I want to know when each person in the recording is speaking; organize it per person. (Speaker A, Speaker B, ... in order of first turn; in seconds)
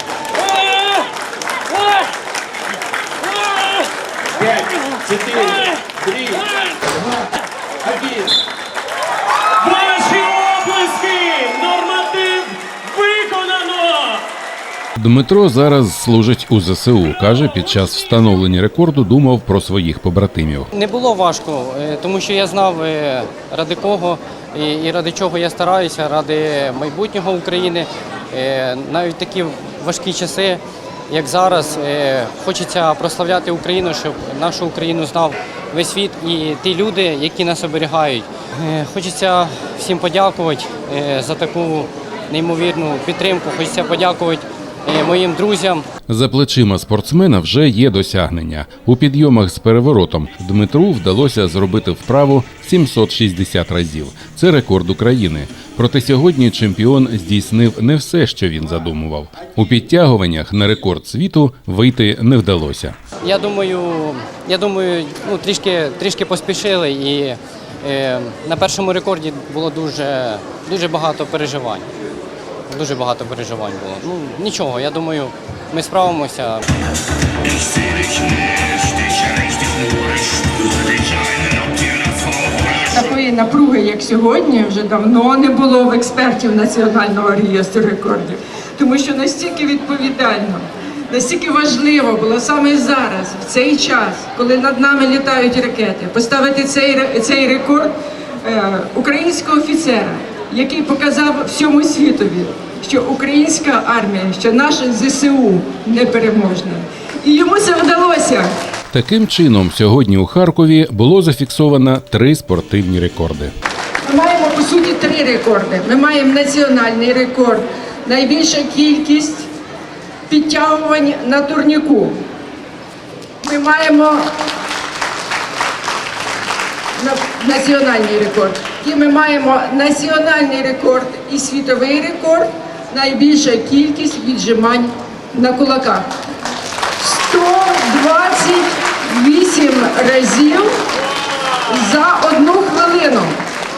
Speaker A: 4.5-6.4, 7.9-8.2, 9.6-14.2
Speaker B: 15.0-20.7, 46.1-63.0, 108.9-113.5
Speaker C: 20.7-45.9, 63.2-71.9, 72.7-76.7, 77.4-82.8
Speaker D: 82.9-108.5, 114.1-119.5, 120.3-122.1, 123.4-124.3, 127.0-136.1, 137.0-140.7, 141.7-143.4